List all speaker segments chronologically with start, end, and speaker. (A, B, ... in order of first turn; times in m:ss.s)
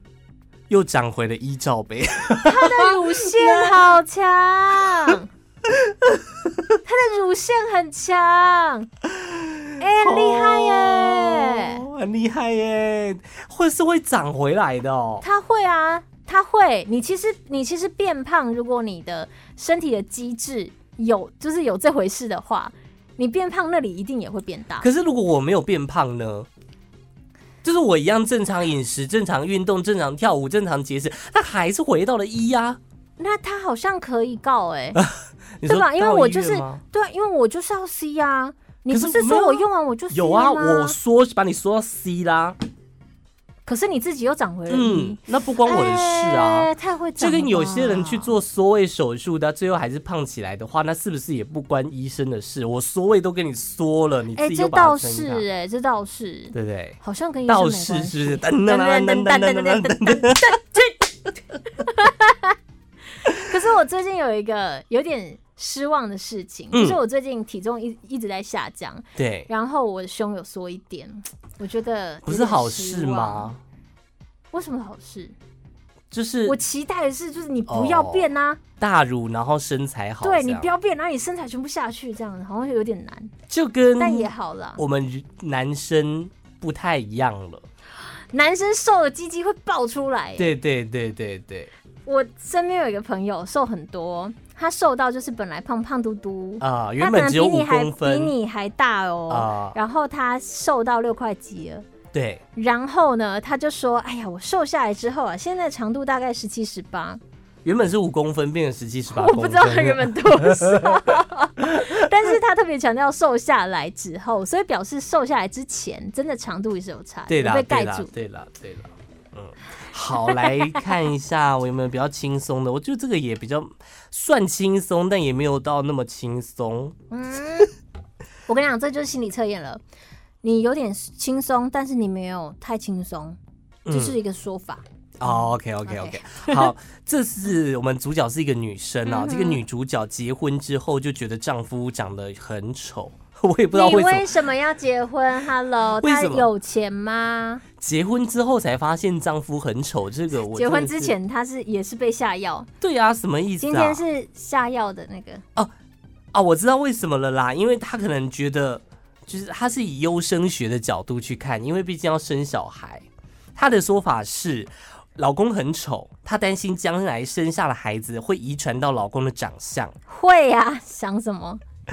0:00.7-0:03.8 A
0:02.4-0:05.3 B
0:04.8-0:06.8 A
0:06.8-0:08.9 B
0:09.0-0:15.2 A
0:09.8-0:11.8 B
0:15.2-0:24.9 B
0:24.8-0:26.5 A
0:27.6-0:32.8 A
0:33.2-0:35.0 B
0:35.0-0:36.8 A
0:35.6-0:41.0 B
0:38.9-0:42.6 A
0:43.7-0:48.4 B
0:44.7-0:55.4 A
0:54.4-1:01.0 B
0:56.5-1:00.6 A
1:01.7-1:02.6 B
1:03.2-1:13.5 B
1:06.7-1:07.0 A
1:09.2-1:09.5 A
1:12.2-1:13.6 A
1:14.5-1:15.4 B
1:16.1-1:16.6 A
1:16.5-1:18.6 B
1:17.7-1:20.7 A
1:20.2-1:23.3 B
1:23.5-1:27.6 A
1:24.0-1:24.8 B
1:28.3-1:30.5 B
1:30.4-1:31.7 A
1:32.1-1:41.9 B
1:36.6-1:38.4 A
1:39.3-1:39.8 A
1:42.1-1:42.4 A
1:42.6-1:47.2 B
1:47.6-1:52.3 A
1:49.1-1:58.1 B
1:57.3-2:07.0 A
2:00.3-2:00.8 B
2:07.1-2:07.7 B
2:08.5-2:09.8 B
2:10.4-2:13.4 B
2:13.9-2:14.2 A
2:13.9-2:16.7 B
2:15.2-2:24.3 A
2:19.1-2:19.6 B
2:23.7-2:27.6 B
2:26.0-2:26.5 A
2:27.8-2:31.2 A
2:30.4-2:32.7 B
2:32.8-2:34.0 A
2:33.6-2:35.4 B
2:36.3-2:49.9 A
2:50.1-2:51.6 B